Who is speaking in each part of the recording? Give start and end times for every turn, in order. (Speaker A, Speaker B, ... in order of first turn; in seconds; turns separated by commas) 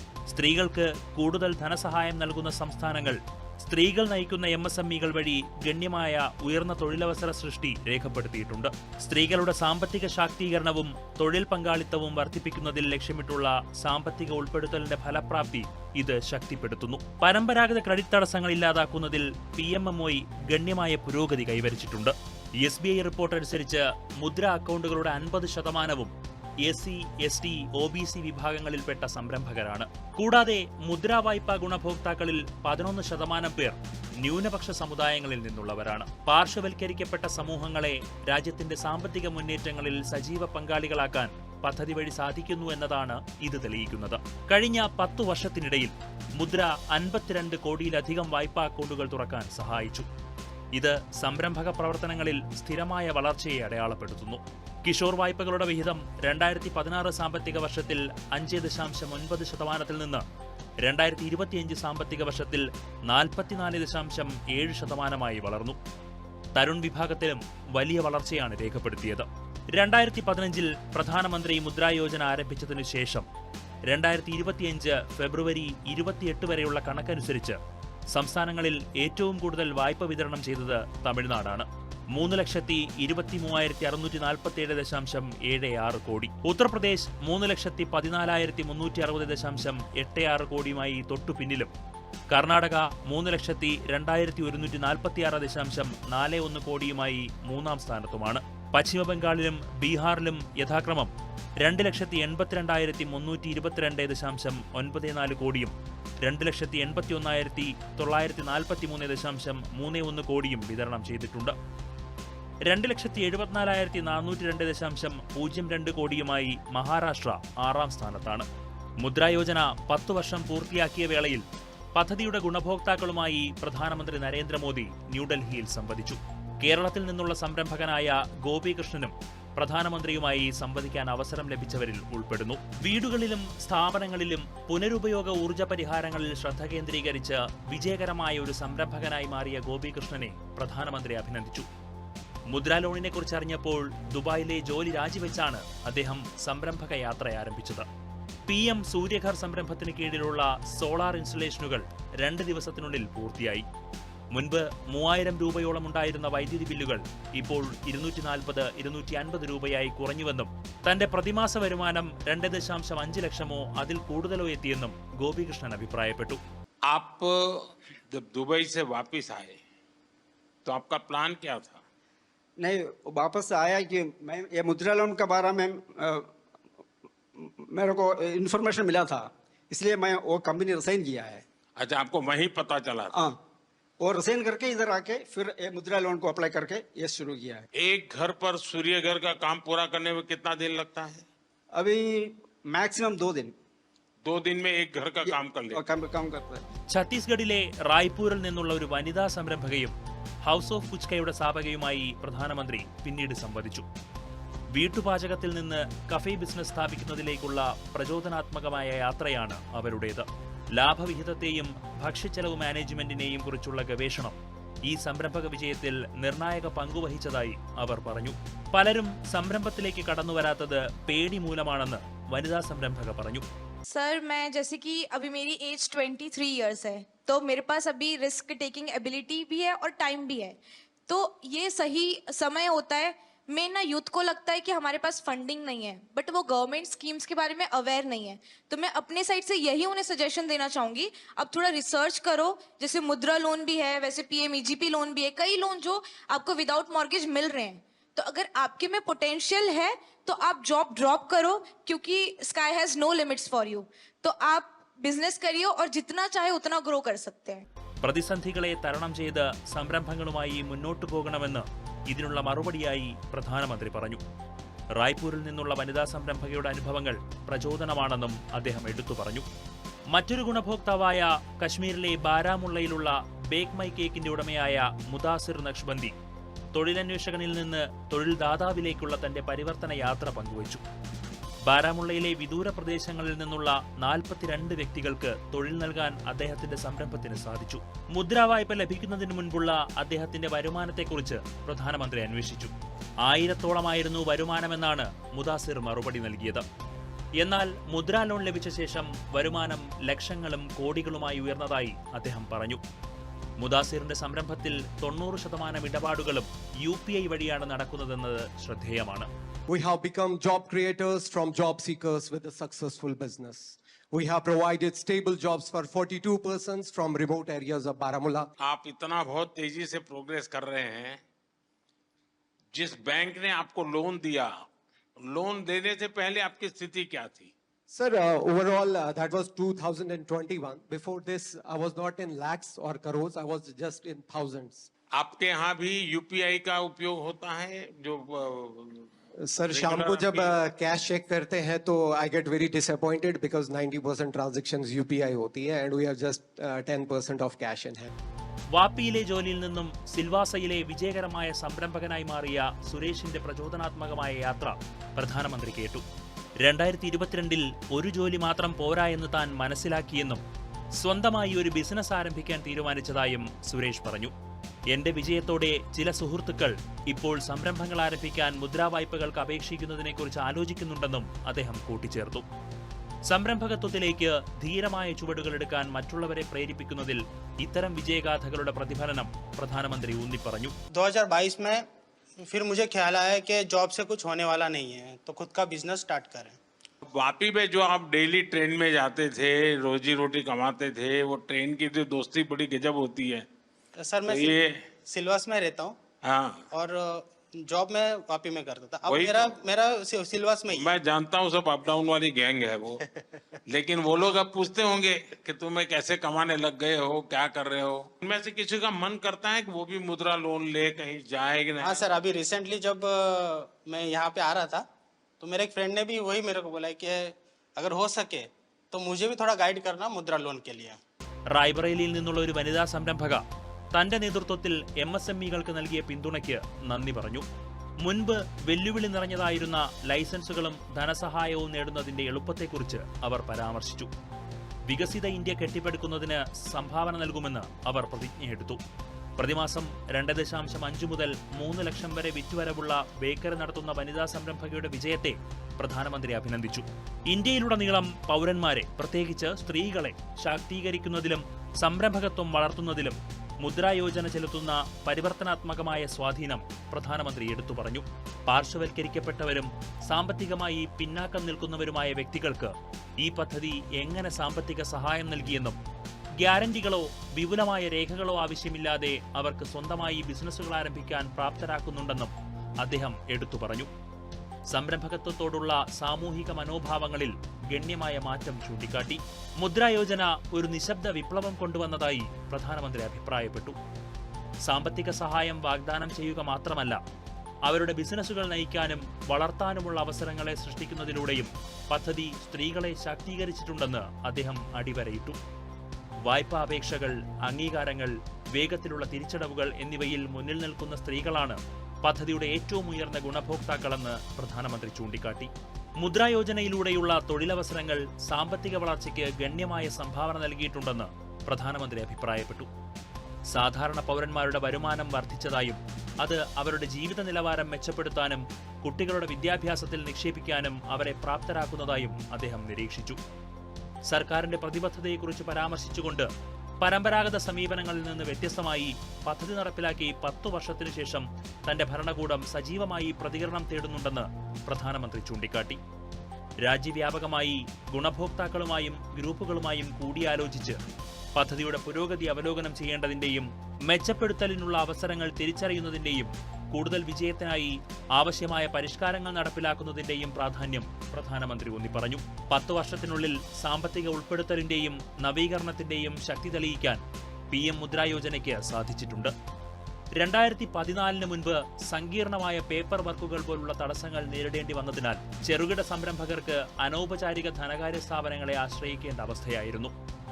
Speaker A: 0.3-26.1, Speaker A: 26.6-50.0, Speaker A: 50.8-60.2, Speaker A: 60.8-65.8, Speaker A: 66.5-73.3, Speaker A: 73.9-77.6, Speaker A: 78.1-91.7, Speaker A: 92.3-105.7, Speaker A: 106.2-111.5, Speaker A: 112.7-118.5, Speaker A: 119.0-121.4, Speaker A: 122.0-141.7, Speaker A: 142.5-147.8, Speaker A: 148.5-153.7, Speaker A: 154.3-166.4, Speaker B: 166.9-167.3, Speaker B: 168.1-169.6, Speaker B: 170.7-171.8, Speaker C: 172.6-176.2, Speaker C: 177.4-181.4, Speaker B: 181.8-183.1, Speaker C: 183.1-183.4, Speaker C: 184.0-187.6, Speaker B: 187.7-191.2, Speaker C: 191.7-193.5, Speaker B: 194.2-195.8, Speaker C: 195.2-196.6, Speaker A: 196.9-203.8, Speaker A: 204.7-214.4, Speaker A: 214.9-223.4, Speaker D: 223.8-257.6, Speaker A: 258.0-264.2, Speaker A: 265.0-269.4, Speaker A: 270.1-276.1, Speaker A: 276.7-280.8, Speaker A: 281.7-292.7, Speaker A: 293.2-296.6, Speaker A: 297.4-302.8, Speaker A: 303.6-309.3, Speaker E: 309.7-318.5, Speaker B: 318.6-321.2, Speaker B: 322.7-324.6, Speaker B: 325.2-327.5, Speaker E: 327.9-334.9, Speaker B: 335.1-339.1, Speaker E: 339.4-348.1, Speaker B: 339.7-340.5, Speaker A: 348.7-356.0, Speaker A: 356.6-360.4, Speaker A: 361.0-364.3, Speaker A: 364.9-372.4, Speaker A: 373.3-380.7, Speaker F: 380.9-381.8, Speaker F: 382.4-386.6, Speaker B: 387.1-393.5, Speaker F: 394.0-396.0, Speaker B: 394.3-394.8, Speaker B: 396.2-396.6, Speaker F: 396.7-400.9, Speaker B: 399.1-399.5, Speaker B: 400.7-403.0, Speaker B: 403.7-412.0, Speaker F: 411.8-414.8, Speaker F: 415.4-421.0, Speaker A: 421.5-423.4, Speaker A: 423.9-427.4, Speaker A: 428.0-434.1, Speaker A: 434.9-438.8, Speaker A: 439.4-465.8, Speaker A: 466.4-473.9, Speaker A: 474.7-483.8, Speaker A: 484.6-487.0, Speaker A: 487.7-495.4, Speaker A: 496.2-512.7, Speaker A: 513.5-523.2, Speaker A: 524.1-526.3, Speaker A: 526.8-535.8, Speaker A: 536.6-540.8, Speaker A: 541.4-557.0, Speaker A: 557.5-559.3, Speaker A: 560.2-569.9